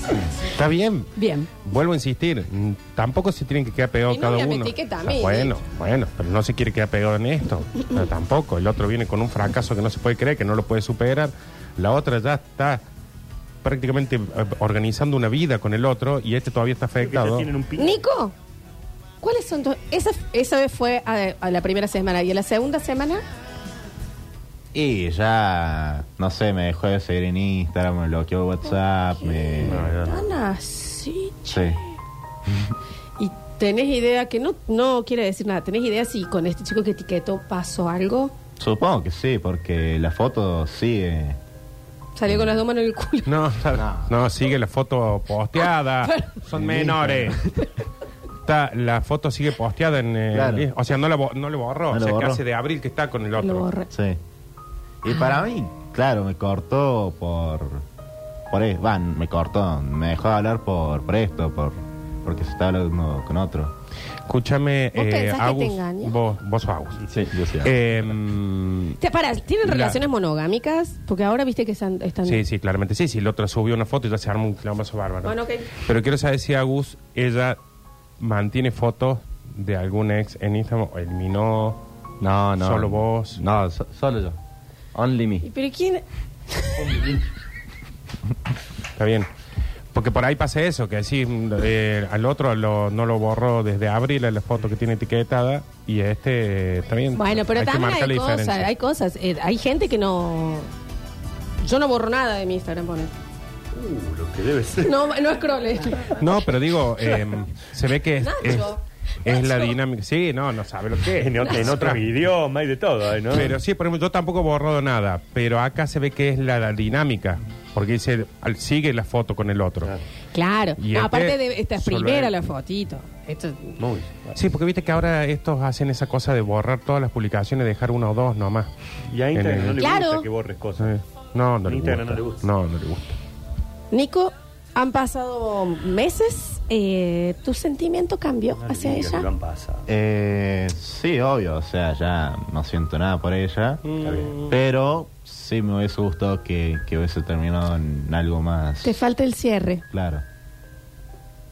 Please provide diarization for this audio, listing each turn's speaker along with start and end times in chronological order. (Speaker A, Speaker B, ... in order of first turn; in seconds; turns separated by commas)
Speaker A: 0.4-1.1, Speaker B: 1.1-1.5, Speaker A: 1.6-12.8, Speaker B: 4.1-5.5, Speaker A: 13.6-17.5, Speaker C: 17.0-18.0, Speaker B: 17.8-18.3, Speaker B: 19.2-23.2, Speaker D: 24.7-29.9, Speaker B: 29.2-31.8, Speaker C: 29.6-30.3, Speaker D: 31.5-31.8, Speaker B: 33.2-38.3, Speaker D: 38.6-41.4, Speaker B: 42.1-43.4, Speaker A: 43.3-47.4, Speaker B: 45.6-46.4, Speaker D: 46.5-47.4, Speaker A: 48.4-53.7, Speaker D: 50.3-50.7, Speaker D: 51.9-52.4, Speaker B: 53.4-53.9, Speaker D: 53.9-54.2, Speaker D: 55.0-57.8, Speaker D: 58.5-63.7, Speaker A: 64.3-67.0, Speaker B: 64.9-66.2, Speaker E: 67.1-67.8, Speaker A: 67.6-69.0, Speaker B: 69.0-72.4, Speaker A: 69.6-70.0, Speaker A: 72.2-77.6, Speaker B: 75.2-75.7, Speaker A: 78.2-81.8, Speaker E: 82.2-84.4, Speaker A: 82.6-83.4, Speaker E: 84.9-85.5, Speaker B: 85.4-87.1, Speaker A: 89.0-89.3, Speaker A: 89.9-98.7, Speaker B: 97.2-100.7, Speaker B: 101.6-103.1, Speaker C: 103.7-105.0, Speaker B: 104.8-106.2, Speaker A: 106.1-112.1, Speaker B: 108.2-109.7, Speaker C: 111.2-113.5, Speaker A: 113.3-120.0, Speaker B: 120.3-123.8, Speaker A: 120.8-122.5, Speaker C: 123.8-124.4, Speaker A: 124.3-128.7, Speaker C: 129.1-130.9, Speaker A: 129.3-129.8, Speaker B: 129.8-130.3, Speaker A: 130.8-133.2, Speaker C: 131.6-132.4, Speaker B: 133.9-139.3, Speaker C: 138.6-139.9, Speaker D: 139.9-143.8, Speaker A: 143.8-144.5, Speaker C: 144.0-144.3, Speaker D: 144.4-149.0, Speaker B: 148.8-149.8, Speaker D: 149.9-150.2